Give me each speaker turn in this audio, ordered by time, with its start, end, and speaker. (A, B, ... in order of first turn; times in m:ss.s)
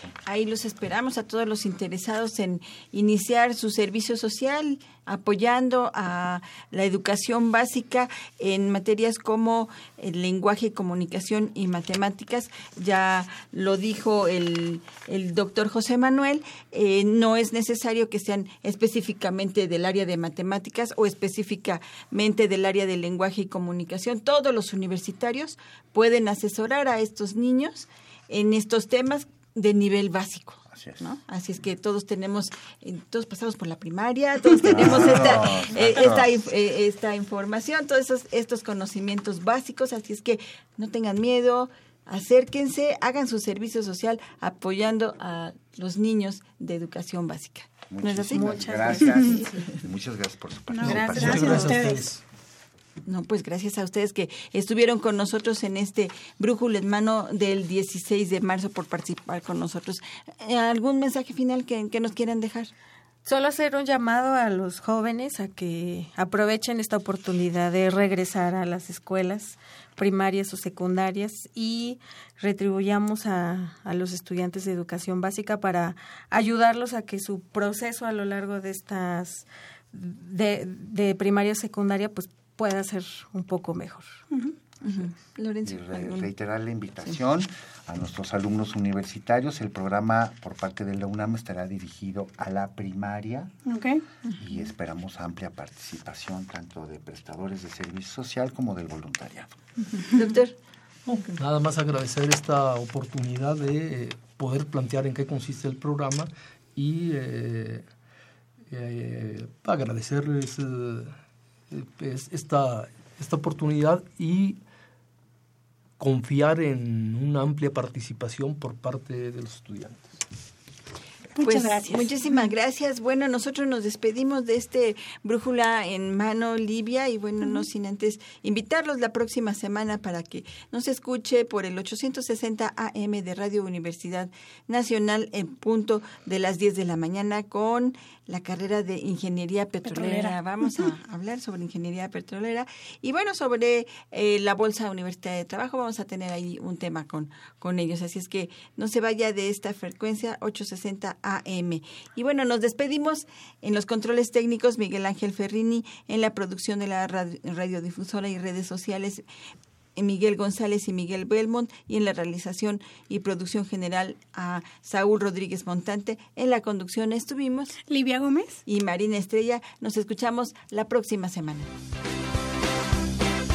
0:00.2-0:49.7 A
0:30.7-0:31.1 B
0:34.6-0:36.3 B
0:47.9-0:51.9 B
0:48.3-0:49.2 C
0:50.7-0:52.1 D
0:50.8-0:52.0 A
0:50.8-0:52.2 E
0:53.1-1:02.7 A
1:03.3-1:24.2 C
1:24.8-1:26.3 A
1:25.6-1:33.5 B
1:33.7-1:34.0 D
1:34.4-1:39.6 B
1:40.0-1:40.6 A
1:41.1-1:47.9 E
1:48.7-1:51.2 E
1:51.7-1:54.6 E
1:56.0-2:00.2 E
2:01.4-2:02.2 D
2:01.4-2:39.2 A
2:19.9-2:20.7 D
2:40.0-2:47.8 A
2:47.9-2:48.6 D
2:48.7-2:51.7 A